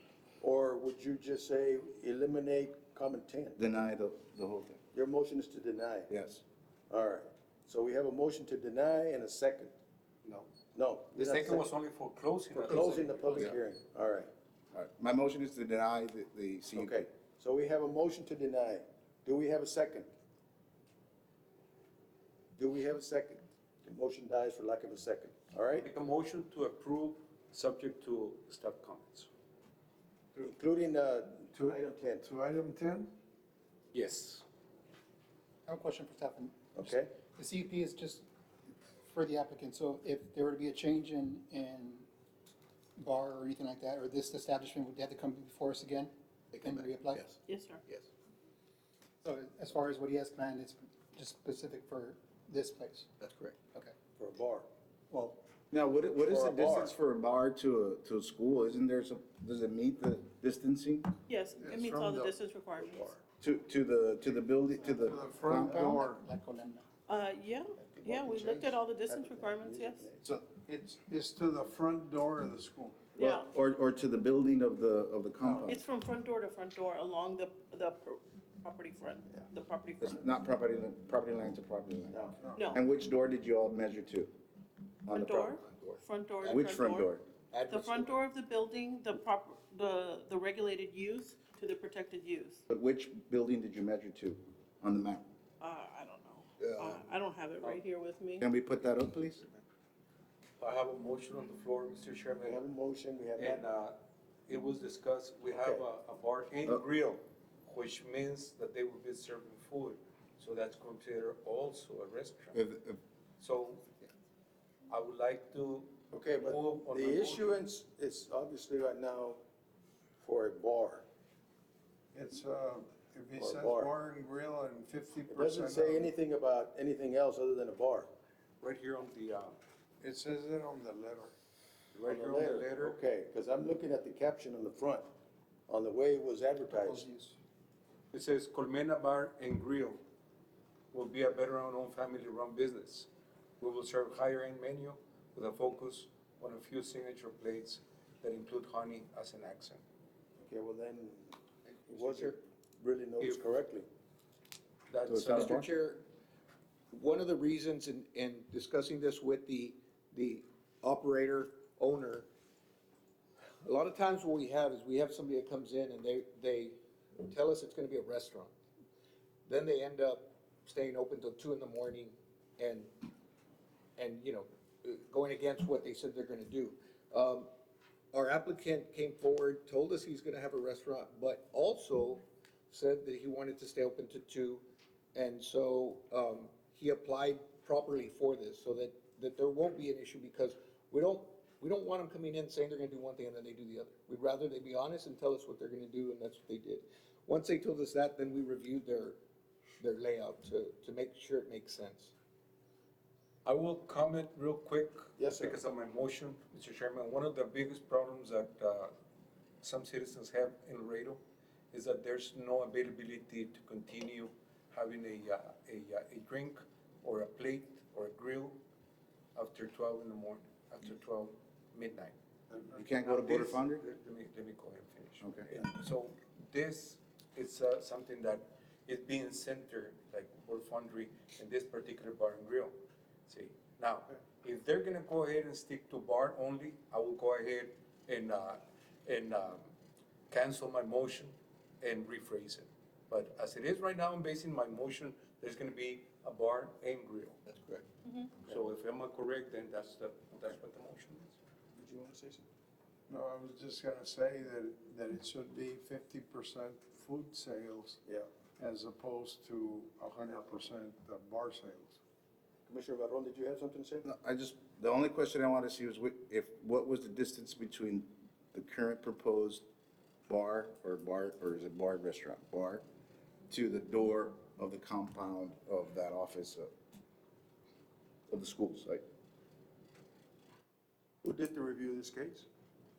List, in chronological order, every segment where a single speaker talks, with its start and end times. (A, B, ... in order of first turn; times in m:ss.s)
0:00.4-0:03.6 A
0:03.6-0:04.8 B
0:04.9-0:06.1 A
0:06.1-0:06.4 B
0:06.9-0:09.8 A
0:10.7-0:11.7 A
0:11.2-0:13.6 C
0:12.6-0:14.3 A
0:12.8-0:13.5 B
0:14.7-0:17.0 B
0:16.7-0:20.1 A
0:22.6-0:25.8 A
0:25.8-0:29.3 C
0:30.3-0:32.3 A
0:31.5-0:33.1 D
0:33.9-0:34.4 C
0:35.7-0:38.2 E
0:36.7-0:37.1 A
0:39.1-0:42.1 E
0:43.0-0:47.2 E
0:46.5-0:48.1 F
0:47.4-0:47.8 G
0:49.2-0:53.1 E
0:53.2-0:53.6 F
0:54.2-0:54.7 A
0:55.1-0:55.4 E
0:55.7-1:01.1 B
0:56.3-0:56.9 A
1:01.3-1:03.2 G
1:01.6-1:02.4 D
1:03.4-1:06.0 B
1:04.8-1:06.8 E
1:05.0-1:06.2 D
1:07.0-1:10.1 G
1:07.9-1:10.2 A
1:10.4-1:13.2 D
1:13.2-1:13.5 G
1:13.2-1:15.8 B
1:15.6-1:20.2 G
1:20.0-1:22.2 B
1:22.1-1:22.4 A
1:22.4-1:22.7 D
1:22.5-1:22.8 G
1:22.7-1:24.3 B
1:25.1-1:25.6 B
1:25.1-1:27.1 G
1:25.6-1:26.7 F
1:26.4-1:27.3 B
1:27.4-1:28.1 F
1:27.7-1:32.6 G
1:32.7-1:35.2 B
1:35.6-1:38.5 G
1:36.6-1:37.0 F
1:38.4-1:39.4 B
1:40.6-1:42.6 C
1:42.4-1:43.7 A
1:43.4-1:52.6 C
1:45.5-1:45.8 A
1:52.5-1:53.0 B
1:53.4-1:53.8 C
1:54.9-1:57.6 C
1:56.1-1:59.4 A
2:00.2-2:01.0 A
2:02.1-2:06.1 D
2:03.4-2:03.9 A
2:05.3-2:08.1 A
2:08.6-2:09.6 C
2:10.0-2:11.3 D
2:11.9-2:13.0 C
2:12.0-2:15.0 A
2:15.7-2:17.1 A
2:16.7-2:17.4 E
2:18.1-2:20.0 C
2:20.9-2:23.1 C
2:23.6-2:29.8 C
2:30.4-2:31.4 A
2:31.9-2:32.3 F
2:31.9-2:33.8 A
2:34.9-2:35.6 C
2:35.0-2:35.7 B
2:35.2-2:36.0 F
2:36.9-2:42.3 F
2:43.6-2:46.7 F
2:47.2-2:48.5 F
2:49.4-2:52.9 F
2:54.0-2:57.5 F
2:58.1-3:04.6 F
3:05.1-3:19.2 F
3:19.8-3:22.1 F
3:23.4-3:28.9 C
3:25.2-3:25.6 A
3:29.6-3:38.6 C
3:39.3-3:42.2 C
3:42.7-3:43.8 B
3:42.9-3:52.7 C
3:45.2-3:45.5 B
3:53.3-3:59.7 C
4:00.3-4:07.4 C
4:07.5-4:07.8 F
4:08.0-4:08.3 G
4:08.4-4:11.4 C
4:11.8-4:12.4 A
4:13.1-4:18.0 D
4:18.6-4:22.0 D
4:22.7-4:24.0 A
4:24.0-4:29.6 B
4:30.3-4:32.8 B
4:33.5-4:36.7 B
4:38.3-4:39.0 B
4:41.2-4:42.5 A